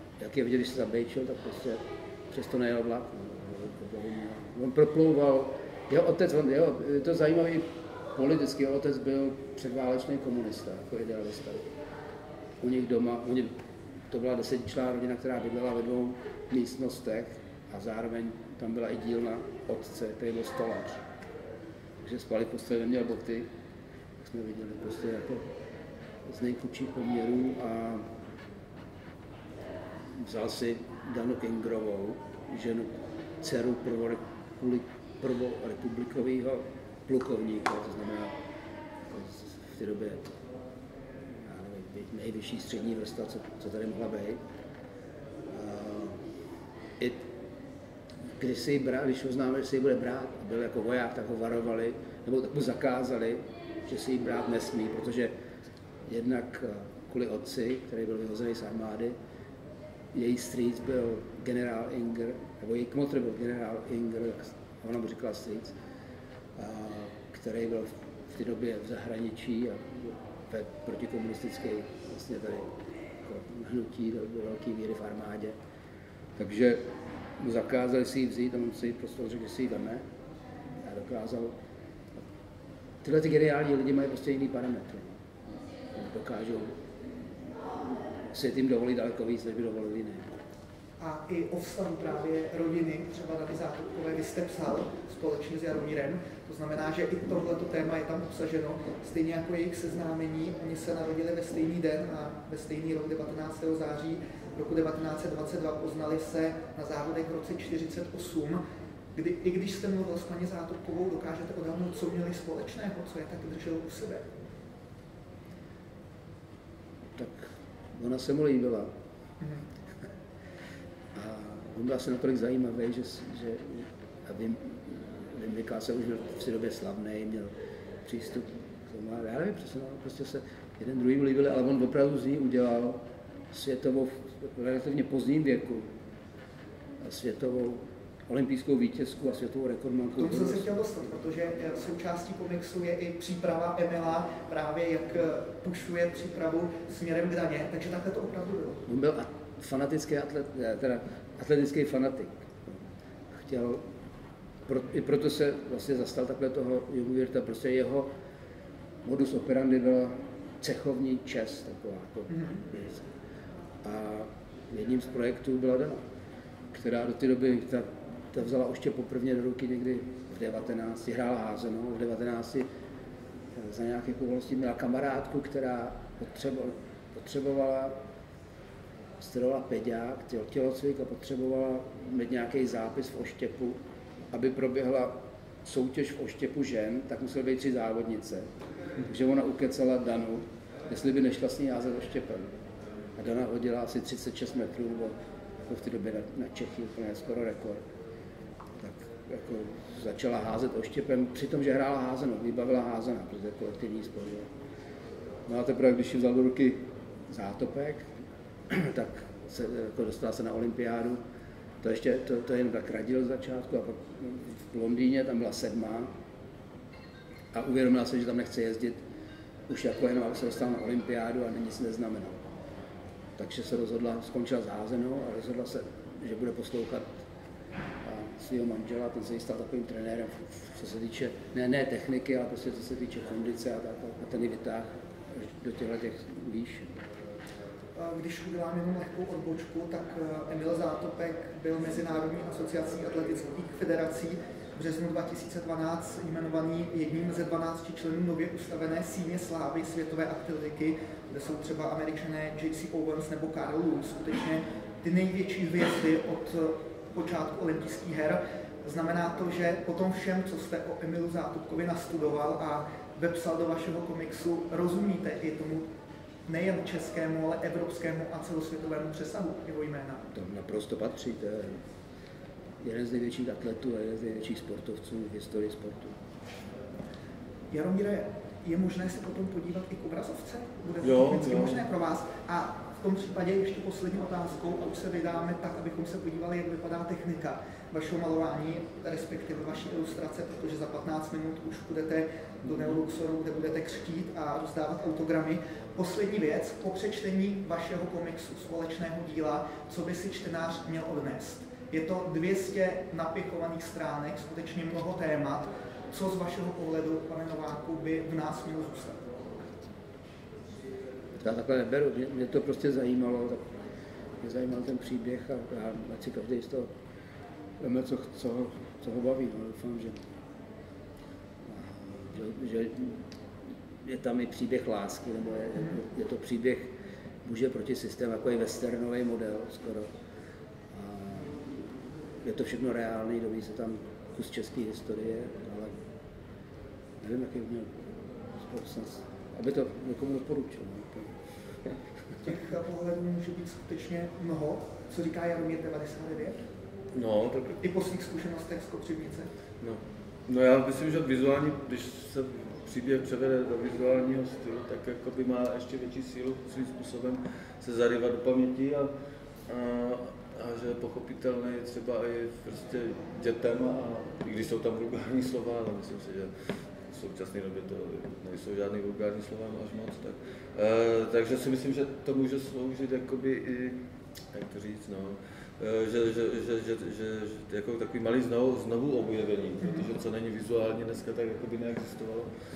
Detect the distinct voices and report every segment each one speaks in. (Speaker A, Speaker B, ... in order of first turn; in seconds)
Speaker A: 0.2-11.7, 12.6-13.5, 14.1-21.1, 22.0-23.5, 24.2-25.5, 26.3-28.1, 30.1-38.4, 39.1-40.3, 41.4-44.4, 45.5-46.2, 47.0-47.3, 48.4-55.3, 56.1-59.2, 60.1-65.8, 66.6-75.6, 76.4-76.9, 77.4-80.1, 80.8-81.6, 83.0-85.2, 85.9-86.8, 88.3-90.4, 117.2-118.9, 121.1-127.5, 128.0-135.9, 137.0-140.7, 148.9-153.9, 154.7-158.1, 159.0-163.1, 163.8-166.0, 166.7-172.7, 173.5-178.0, 179.2-183.8, 184.3-188.5, 189.0-192.5, 193.2-197.8, 198.8-204.5, 205.5-208.1, 208.7-211.2, 211.8-216.1, 217.5-219.0, 219.7-222.5, 223.4-227.2, 228.0-237.1, 270.3-271.8, 272.8-276.2, 311.4-313.7, 314.4-316.9, 317.8-320.3, 321.6-323.2, 324.0-330.1, 330.9-331.9, 332.4-336.0, 337.2-341.3
Speaker B: 91.0-108.6, 109.1-114.3, 140.2-148.8, 162.3-162.6, 237.9-265.9, 266.5-270.3, 277.7-309.2, 342.5-346.6, 347.7-349.5, 379.8-380.1
Speaker C: 281.0-281.9, 347.1-347.7, 349.8-359.1, 359.7-366.5, 367.1-382.5